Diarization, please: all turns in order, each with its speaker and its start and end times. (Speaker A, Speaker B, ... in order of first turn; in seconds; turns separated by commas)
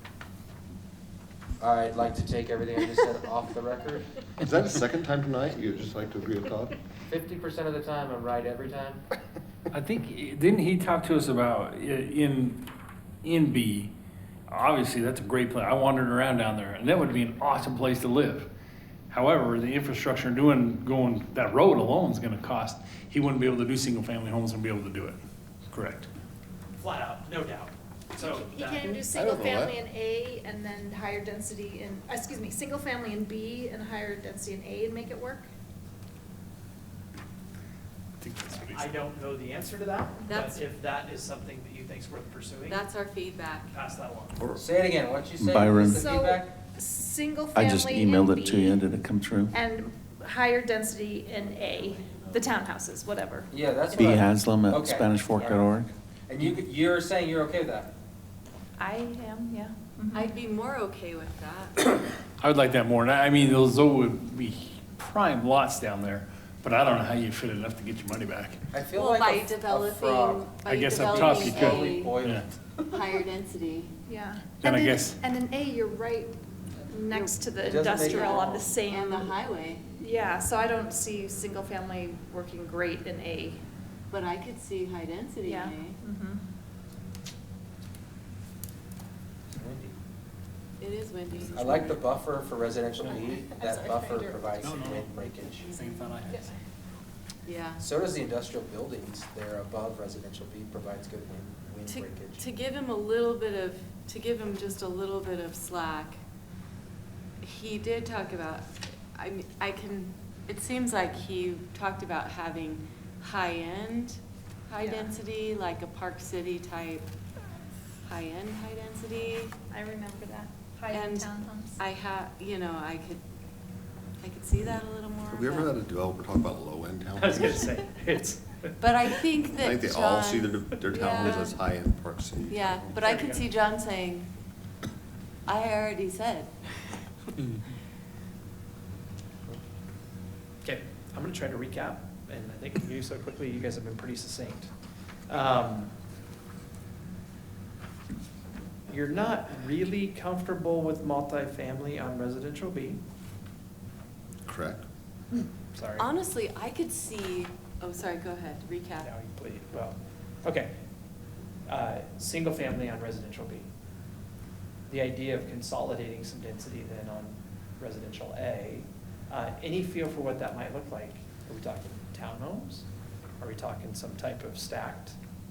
Speaker A: 1.6-4.1, Speaker B: 4.4-6.8, Speaker A: 7.0-9.0, Speaker C: 9.7-12.6, Speaker C: 13.2-13.9, Speaker C: 14.5-18.5, Speaker C: 19.1-25.2, Speaker C: 25.7-26.1, Speaker D: 26.8-29.0, Speaker E: 28.2-35.5, Speaker B: 29.1-29.8, Speaker C: 38.2-38.8, Speaker D: 38.7-42.8, Speaker F: 40.3-40.6, Speaker F: 42.7-43.7, Speaker D: 43.7-44.4, Speaker B: 44.4-44.6, Speaker A: 44.6-46.5, Speaker G: 45.4-46.0, Speaker E: 45.9-48.9, Speaker G: 47.5-49.5, Speaker E: 49.5-54.1, Speaker A: 53.5-55.6, Speaker G: 54.0-55.9, Speaker A: 56.3-57.9, Speaker E: 58.8-60.4, Speaker F: 60.1-61.9, Speaker C: 62.4-68.6, Speaker A: 68.7-72.4, Speaker F: 68.9-72.2, Speaker C: 70.6-72.4, Speaker F: 72.8-74.0, Speaker E: 74.1-79.4, Speaker C: 74.6-75.2, Speaker A: 77.6-78.7, Speaker F: 77.9-79.8, Speaker E: 80.0-83.6, Speaker F: 84.1-86.0, Speaker E: 85.4-86.4, Speaker A: 89.5-89.9, Speaker F: 90.8-92.1, Speaker A: 91.5-95.8, Speaker C: 94.5-96.5, Speaker F: 95.7-96.2, Speaker F: 97.4-97.8, Speaker A: 97.8-102.4, Speaker F: 101.8-106.2, Speaker F: 107.4-117.1, Speaker E: 114.8-115.1, Speaker F: 118.0-119.5, Speaker E: 119.7-121.8, Speaker F: 120.9-123.2, Speaker F: 124.2-125.7, Speaker B: 125.3-127.7, Speaker D: 127.2-128.7, Speaker F: 128.8-131.6, Speaker B: 129.6-132.9, Speaker F: 132.5-134.3, Speaker D: 133.0-133.4, Speaker F: 135.5-136.5, Speaker D: 140.6-144.7, Speaker D: 145.3-145.9, Speaker D: 148.9-153.0, Speaker B: 154.4-154.8, Speaker D: 155.7-156.1, Speaker F: 156.0-159.1, Speaker D: 159.0-160.7, Speaker D: 161.7-163.7, Speaker D: 164.9-172.9, Speaker D: 173.4-175.2